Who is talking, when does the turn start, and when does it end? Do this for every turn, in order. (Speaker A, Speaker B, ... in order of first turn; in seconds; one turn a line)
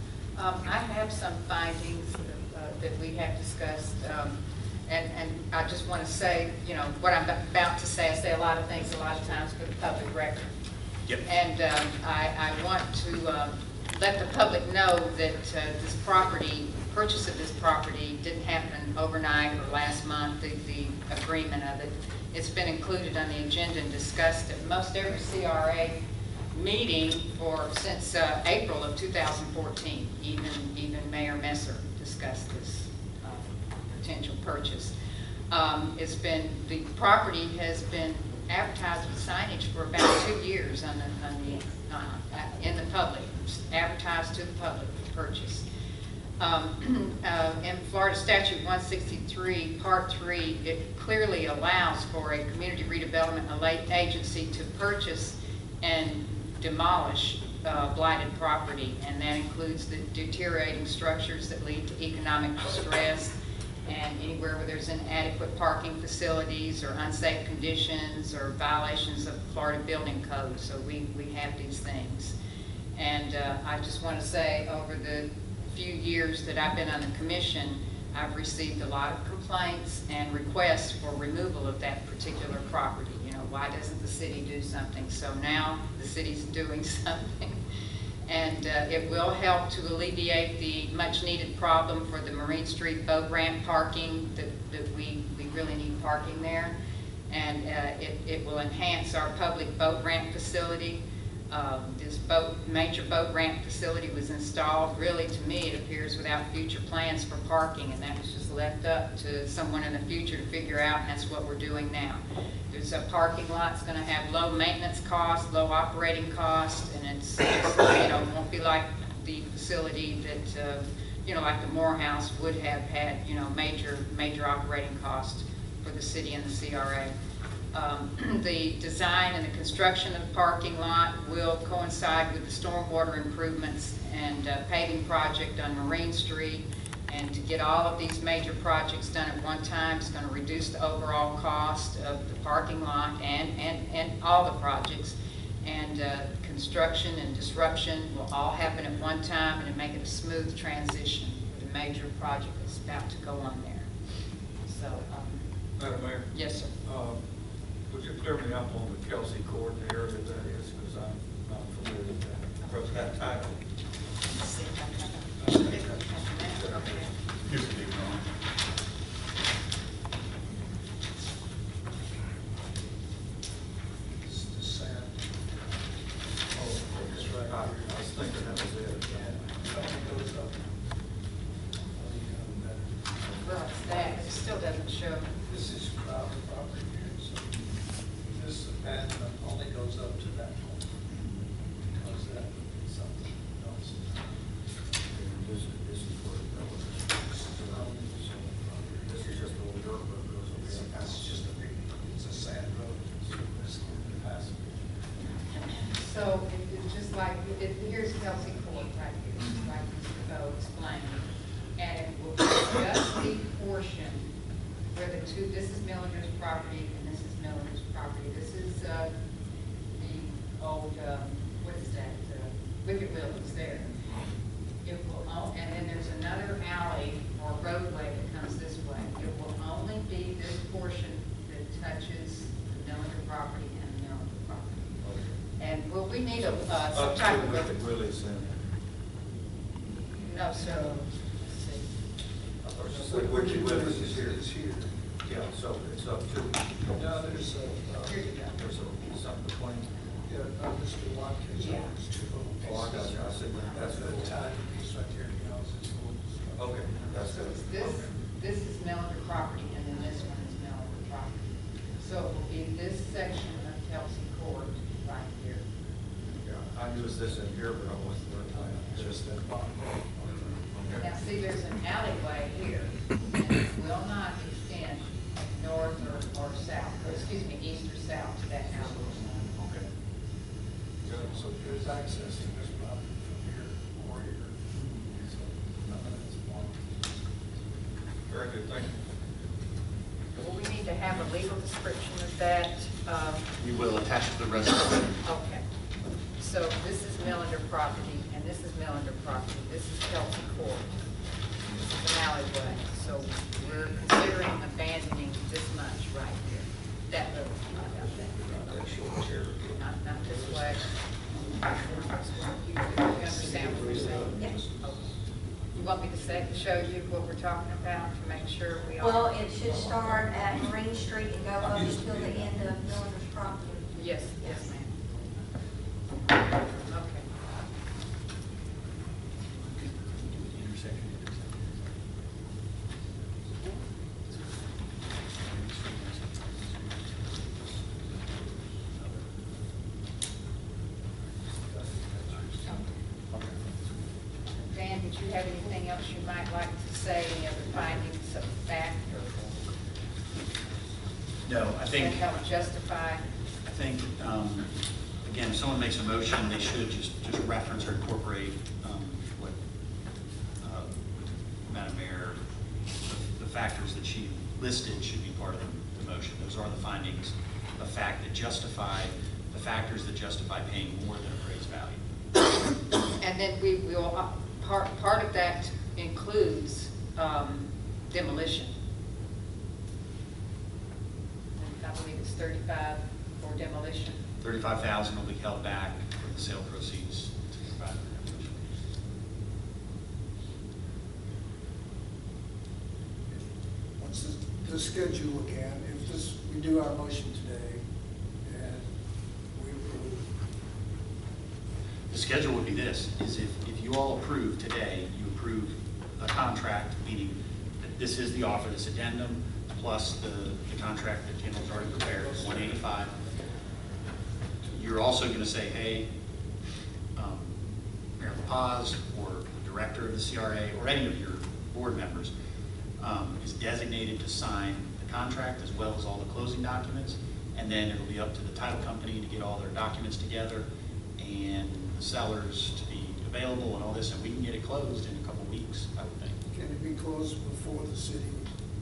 Speaker A: 0.3-10.5
Speaker A: 11.2-26.0
Speaker A: 26.5-34.9
Speaker A: 35.5-45.6
Speaker A: 46.4-63.3
Speaker A: 63.9-72.3
Speaker A: 72.9-87.6
Speaker A: 88.3-96.7
Speaker A: 97.3-127.1
Speaker A: 127.7-153.9
Speaker A: 154.7-155.4
Speaker B: 155.8-156.3
Speaker A: 156.3-156.7
Speaker B: 156.8-157.2
Speaker B: 157.9-163.6
Speaker A: 164.3-167.1
Speaker B: 165.4-167.1
Speaker C: 167.4-168.2
Speaker D: 174.2-175.2
Speaker D: 176.6-177.9
Speaker B: 176.6-179.4
Speaker D: 179.1-180.6
Speaker D: 182.0-182.8
Speaker A: 183.4-185.3
Speaker D: 185.5-187.5
Speaker D: 188.3-190.8
Speaker D: 191.9-194.3
Speaker B: 195.1-201.2
Speaker D: 197.3-198.1
Speaker D: 198.6-199.5
Speaker D: 200.6-204.8
Speaker A: 205.7-211.2
Speaker A: 211.8-214.2
Speaker A: 214.9-219.1
Speaker A: 219.9-224.0
Speaker A: 224.8-234.8
Speaker B: 235.0-235.3
Speaker A: 235.6-237.7
Speaker B: 236.4-238.5
Speaker A: 240.2-241.8
Speaker D: 240.6-241.0
Speaker B: 242.6-244.4
Speaker D: 242.9-244.9
Speaker B: 245.2-247.0
Speaker D: 246.9-248.3
Speaker A: 248.1-248.4
Speaker B: 248.4-249.9
Speaker D: 250.3-256.6
Speaker A: 251.6-251.9
Speaker B: 252.6-254.4
Speaker B: 256.6-258.1
Speaker A: 257.3-261.4
Speaker A: 262.0-265.6
Speaker B: 266.4-269.4
Speaker D: 268.9-270.1
Speaker B: 270.2-271.1
Speaker A: 271.0-279.0
Speaker B: 279.0-279.9
Speaker B: 281.0-281.5
Speaker D: 281.2-284.6
Speaker B: 284.8-285.0
Speaker D: 285.2-286.7
Speaker B: 288.3-289.0
Speaker A: 290.4-293.5
Speaker C: 293.6-295.2
Speaker A: 295.2-295.6
Speaker A: 296.4-300.9
Speaker A: 301.8-308.4
Speaker B: 308.6-309.7
Speaker A: 309.7-310.9
Speaker B: 310.2-310.5
Speaker A: 311.7-315.0
Speaker B: 313.3-314.2
Speaker D: 313.9-314.7
Speaker A: 315.8-319.3
Speaker E: 319.0-323.9
Speaker D: 321.6-322.6
Speaker A: 324.0-324.8
Speaker A: 326.9-327.2
Speaker C: 330.1-331.6
Speaker C: 335.5-336.2
Speaker D: 341.6-342.5
Speaker A: 344.7-349.4
Speaker C: 351.4-352.2
Speaker A: 351.9-353.2
Speaker C: 353.6-354.7
Speaker C: 355.2-359.6
Speaker C: 360.6-361.0
Speaker C: 361.7-362.4
Speaker C: 363.0-372.0
Speaker A: 373.2-378.7
Speaker A: 381.6-384.2
Speaker C: 384.4-388.6
Speaker D: 394.0-397.8
Speaker D: 398.4-398.9
Speaker D: 399.5-400.2
Speaker C: 402.1-413.1
Speaker D: 411.9-412.8
Speaker C: 414.7-416.1
Speaker C: 417.1-417.6
Speaker C: 418.2-422.3
Speaker C: 423.0-430.6
Speaker C: 431.2-436.4
Speaker D: 436.5-438.5